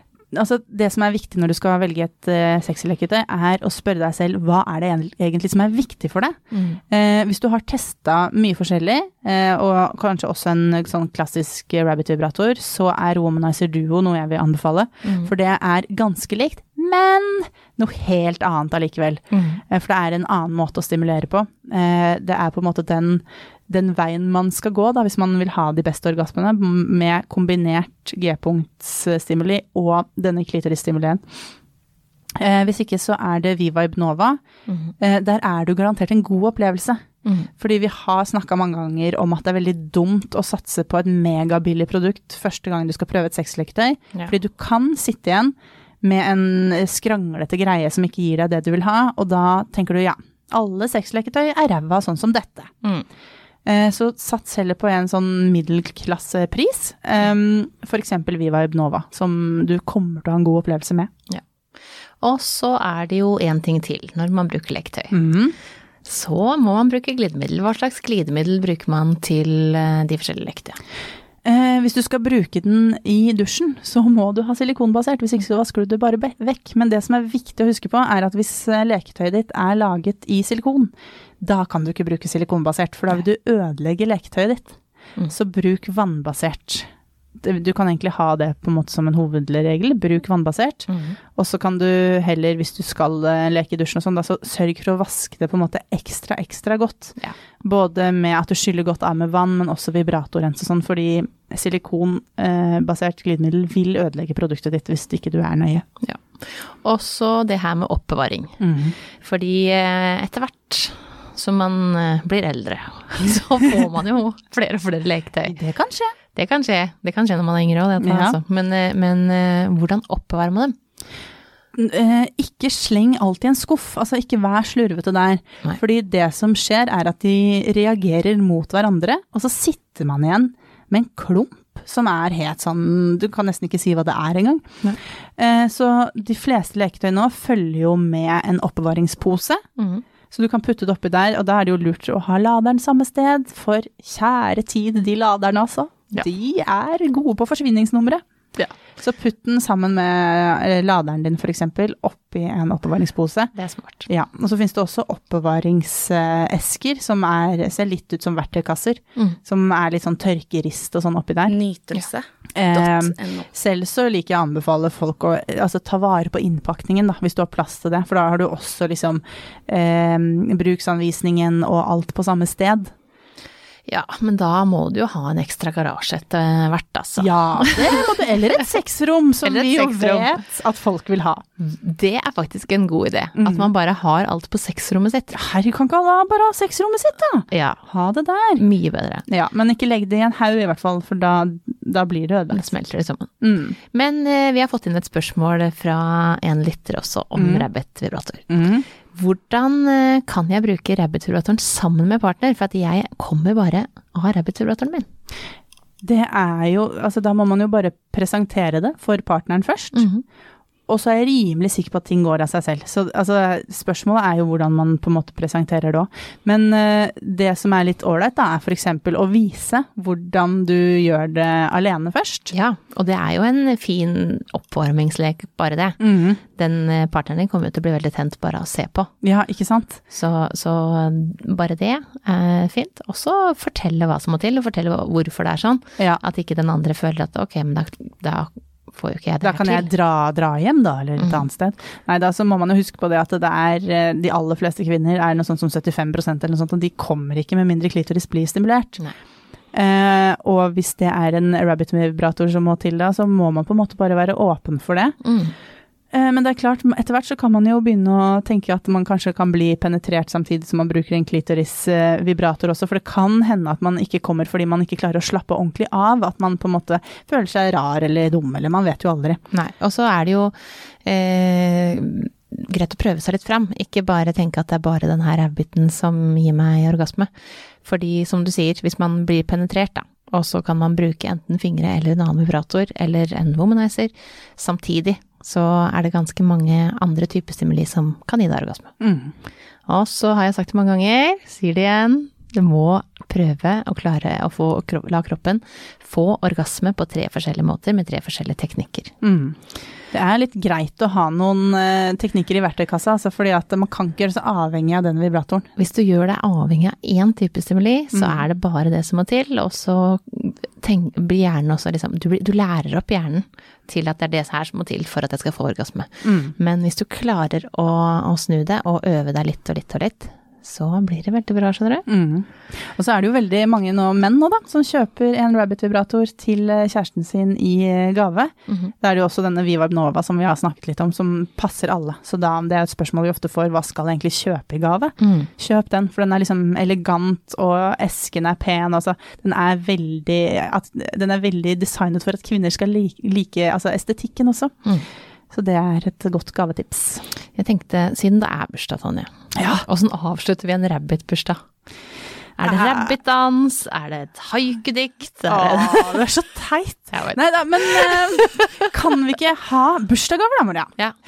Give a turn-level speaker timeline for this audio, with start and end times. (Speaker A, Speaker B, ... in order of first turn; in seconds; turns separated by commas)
Speaker A: 0.3-6.4, Speaker B: 6.5-6.8, Speaker A: 6.9-31.2, Speaker B: 15.1-15.3, Speaker B: 19.3-19.6, Speaker A: 32.4-34.4, Speaker B: 34.7-34.9, Speaker A: 35.0-37.0, Speaker B: 37.2-37.5, Speaker A: 37.6-52.7, Speaker A: 53.7-61.1, Speaker B: 62.2-65.1, Speaker A: 65.1-65.6, Speaker B: 66.0-70.8, Speaker A: 71.5-84.8, Speaker A: 85.3-86.9, Speaker A: 87.4-105.8, Speaker B: 90.9-91.2, Speaker B: 106.0-115.6, Speaker A: 108.6-109.0, Speaker A: 115.5-116.1, Speaker B: 116.3-120.8, Speaker A: 118.0-118.4, Speaker A: 121.8-134.6, Speaker A: 135.4-139.6, Speaker B: 139.8-140.0, Speaker A: 140.3-148.2, Speaker A: 149.0-153.5, Speaker B: 153.6-154.1, Speaker A: 154.1-161.6, Speaker C: 161.5-163.5, Speaker A: 162.6-172.9, Speaker B: 173.9-178.6, Speaker A: 177.2-181.4, Speaker B: 179.4-180.4, Speaker B: 181.6-185.3, Speaker A: 183.4-183.7, Speaker A: 185.3-188.6, Speaker B: 187.5-187.8, Speaker B: 188.6-189.2, Speaker A: 189.3-192.7, Speaker B: 192.5-193.3, Speaker A: 193.4-193.8, Speaker B: 193.9-198.5, Speaker A: 197.4-197.7, Speaker A: 198.5-198.9, Speaker B: 199.1-205.1, Speaker A: 206.0-210.1, Speaker B: 209.9-210.2, Speaker A: 210.9-222.5, Speaker B: 222.5-229.1, Speaker A: 226.0-226.4, Speaker A: 229.2-230.0, Speaker B: 230.1-239.9, Speaker A: 239.4-249.0, Speaker B: 241.2-241.5, Speaker A: 249.7-255.2, Speaker B: 255.2-255.5, Speaker A: 256.1-269.4, Speaker B: 269.5-277.3, Speaker B: 277.8-288.9, Speaker A: 289.0-289.3, Speaker B: 289.9-299.1, Speaker A: 299.2-299.6, Speaker A: 300.1-305.7, Speaker B: 305.8-322.1, Speaker A: 308.1-308.5, Speaker A: 316.2-316.5, Speaker A: 322.1-344.8, Speaker B: 328.7-328.9, Speaker B: 335.2-335.5, Speaker A: 345.5-347.2, Speaker B: 347.6-351.6, Speaker A: 349.6-349.8, Speaker B: 352.6-356.2, Speaker A: 352.6-353.1, Speaker A: 355.5-360.9, Speaker B: 357.1-358.9